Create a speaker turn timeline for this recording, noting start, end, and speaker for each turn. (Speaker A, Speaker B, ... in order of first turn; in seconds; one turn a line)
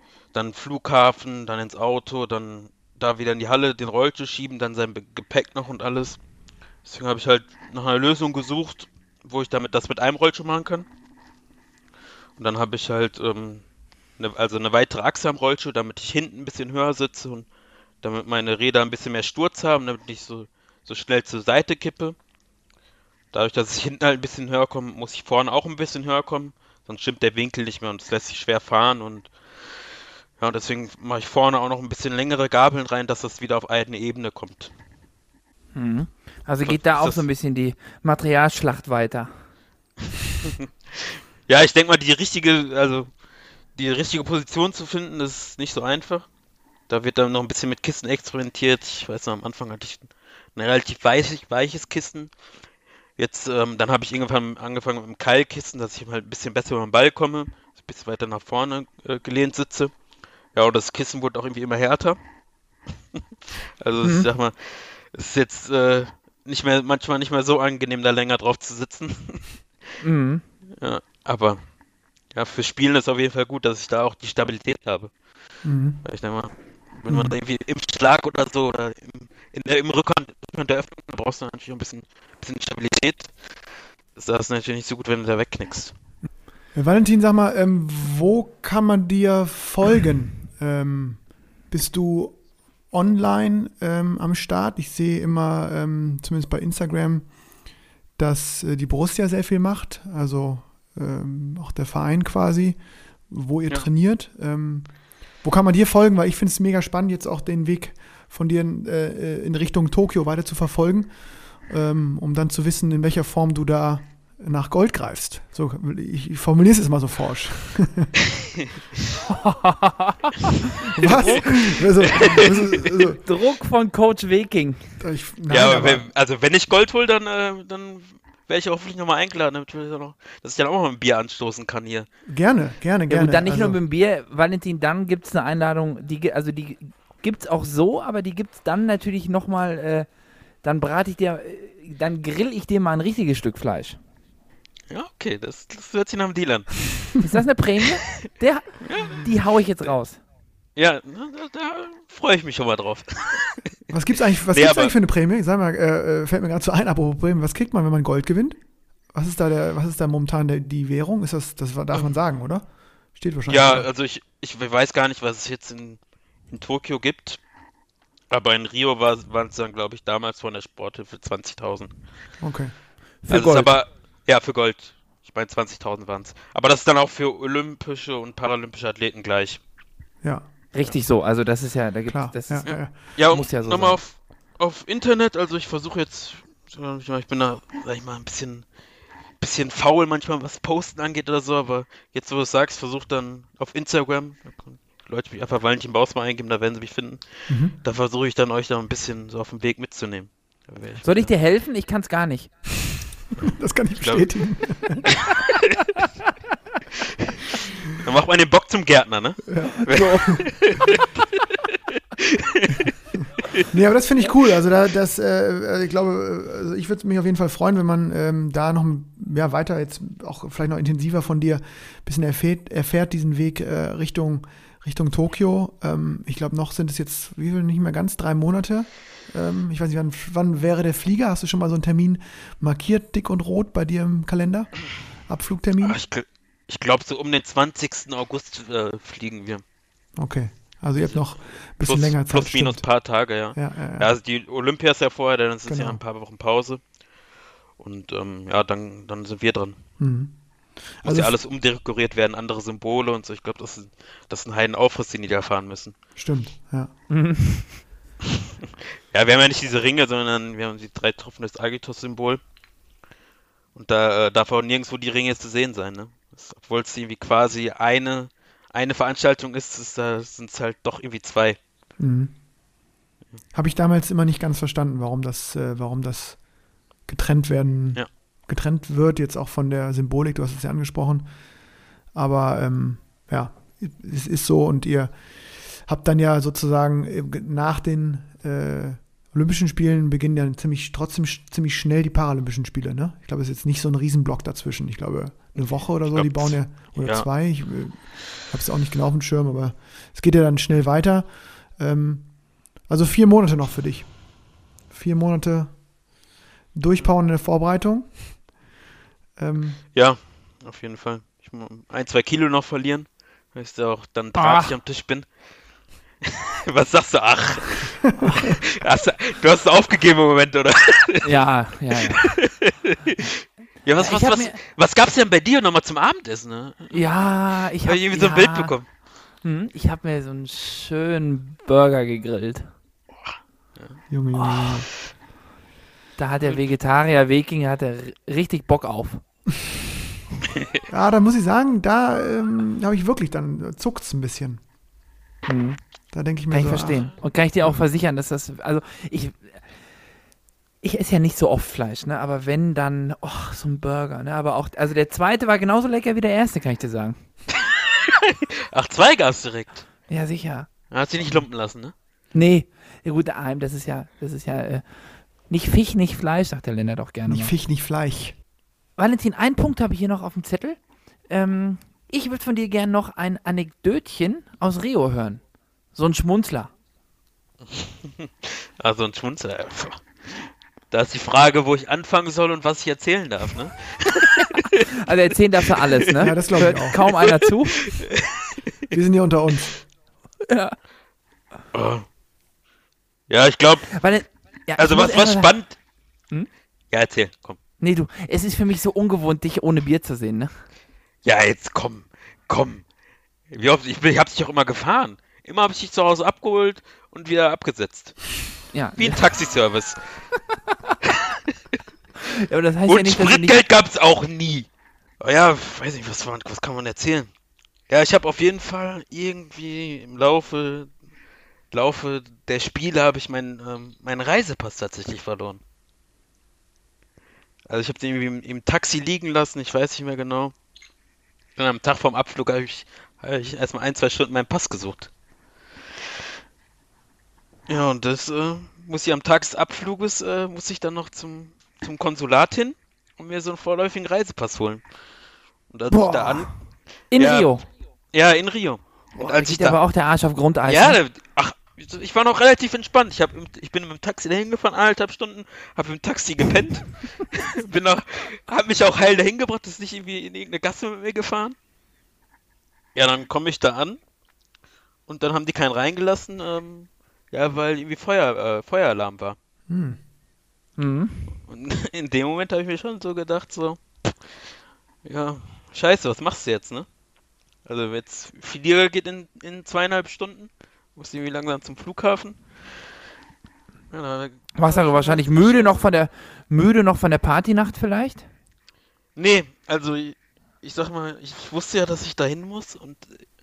Speaker A: 0.3-6.2
Speaker A: 6.8-10.8
Speaker A: 12.4-13.6
Speaker A: 14.2-17.4
Speaker A: 18.0-22.1
Speaker A: 23.3-29.8
Speaker A: 30.4-34.7
Speaker B: 35.7-39.3
Speaker A: 36.6-37.2
Speaker A: 40.4-43.1
Speaker A: 43.7-46.3
Speaker A: 46.9-52.3
Speaker A: 53.2-59.9
Speaker A: 60.5-62.2
Speaker A: 63.5-69.6
Speaker B: 64.0-64.3
Speaker B: 70.0-70.4
Speaker A: 70.8-71.6
Speaker A: 72.3-75.1
Speaker C: 75.6-76.0
Speaker A: 76.0-83.5
Speaker C: 77.1-77.3
Speaker A: 84.2-85.9
Speaker C: 86.7-92.4
Speaker C: 92.9-97.3
Speaker C: 98.2-102.8
Speaker C: 103.3-104.9
Speaker C: 105.4-118.1
Speaker B: 119.3-120.5
Speaker C: 120.9-123.2
Speaker B: 121.0-122.2
Speaker A: 122.0-122.7
Speaker B: 123.2-125.0
Speaker C: 125.0-126.0
Speaker A: 125.5-132.1
Speaker C: 132.3-133.8
Speaker B: 133.1-140.1
Speaker B: 140.6-144.0
Speaker A: 144.9-147.2
Speaker B: 147.2-150.2
Speaker A: 148.8-149.3
Speaker A: 150.8-153.6
Speaker C: 153.9-158.6
Speaker A: 154.5-154.9
Speaker C: 159.1-163.8
Speaker A: 163.5-167.4
Speaker A: 168.3-171.9
Speaker C: 172.4-172.7
Speaker B: 173.2-173.8
Speaker A: 173.3-179.6
Speaker C: 180.2-180.5
Speaker B: 180.7-184.0
Speaker C: 182.1-182.9
Speaker A: 182.6-188.6
Speaker A: 189.4-201.3
Speaker C: 197.5-197.7
Speaker B: 201.0-202.5
Speaker C: 203.4-205.1
Speaker A: 204.0-204.2
Speaker A: 205.3-205.6
Speaker A: 207.3-211.2
Speaker C: 209.5-210.4
Speaker B: 209.9-210.5
Speaker A: 212.2-212.9
Speaker C: 213.7-236.0
Speaker A: 235.8-239.6
Speaker C: 240.2-243.0
Speaker A: 241.8-246.8
Speaker C: 243.5-244.1
Speaker C: 245.7-246.0
Speaker A: 247.8-249.8
Speaker C: 250.0-251.3
Speaker A: 251.0-255.9
Speaker C: 256.1-256.9
Speaker B: 257.1-257.8
Speaker A: 259.1-262.4
Speaker A: 263.7-271.6
Speaker C: 272.0-272.3
Speaker C: 273.5-276.4
Speaker C: 277.1-281.2
Speaker C: 282.1-304.3
Speaker A: 295.6-297.5
Speaker C: 304.9-305.8
Speaker C: 306.7-308.4
Speaker C: 309.4-309.8
Speaker A: 309.9-315.3
Speaker B: 314.4-314.7
Speaker A: 316.2-321.3
Speaker B: 321.2-322.2
Speaker A: 322.0-327.1
Speaker B: 324.0-324.6
Speaker B: 326.9-328.7
Speaker A: 327.8-328.9
Speaker B: 329.4-332.7
Speaker A: 333.2-334.0
Speaker C: 334.1-334.9
Speaker B: 334.3-334.8
Speaker B: 336.2-339.2
Speaker C: 340.9-344.6
Speaker B: 345.5-345.8
Speaker C: 346.1-347.1
Speaker B: 346.5-349.6
Speaker B: 350.8-357.2
Speaker A: 357.5-359.9
Speaker B: 360.1-360.7
Speaker A: 360.9-361.9
Speaker B: 362.3-364.9
Speaker B: 365.4-367.5
Speaker C: 367.3-368.4
Speaker B: 369.0-375.4
Speaker B: 375.9-376.7
Speaker A: 377.7-384.7
Speaker B: 385.0-387.8
Speaker C: 386.2-387.0
Speaker A: 387.8-388.3
Speaker C: 388.9-389.7
Speaker B: 390.5-390.8
Speaker A: 391.7-392.0
Speaker A: 393.3-394.0
Speaker B: 393.9-395.5
Speaker A: 394.8-395.8
Speaker A: 396.9-397.6
Speaker B: 397.8-400.5
Speaker A: 401.2-402.8
Speaker A: 403.5-408.4
Speaker B: 408.7-409.2
Speaker A: 409.0-410.2
Speaker A: 411.0-411.3
Speaker B: 412.3-413.6
Speaker A: 412.9-414.7
Speaker A: 415.2-417.3
Speaker A: 417.9-420.9
Speaker A: 421.7-425.6
Speaker A: 427.7-430.5
Speaker A: 431.6-435.1
Speaker A: 437.7-444.8
Speaker A: 445.7-446.6
Speaker B: 445.9-446.5
Speaker B: 447.1-447.6
Speaker A: 447.1-447.5
Speaker A: 448.1-449.8
Speaker B: 449.1-451.0
Speaker A: 450.6-461.6
Speaker A: 462.9-464.0
Speaker A: 465.1-469.4
Speaker C: 469.7-470.0
Speaker B: 470.8-471.3
Speaker A: 471.4-474.5
Speaker A: 475.0-476.9
Speaker A: 477.6-482.7
Speaker A: 483.9-485.8
Speaker B: 484.6-488.3
Speaker A: 489.1-493.2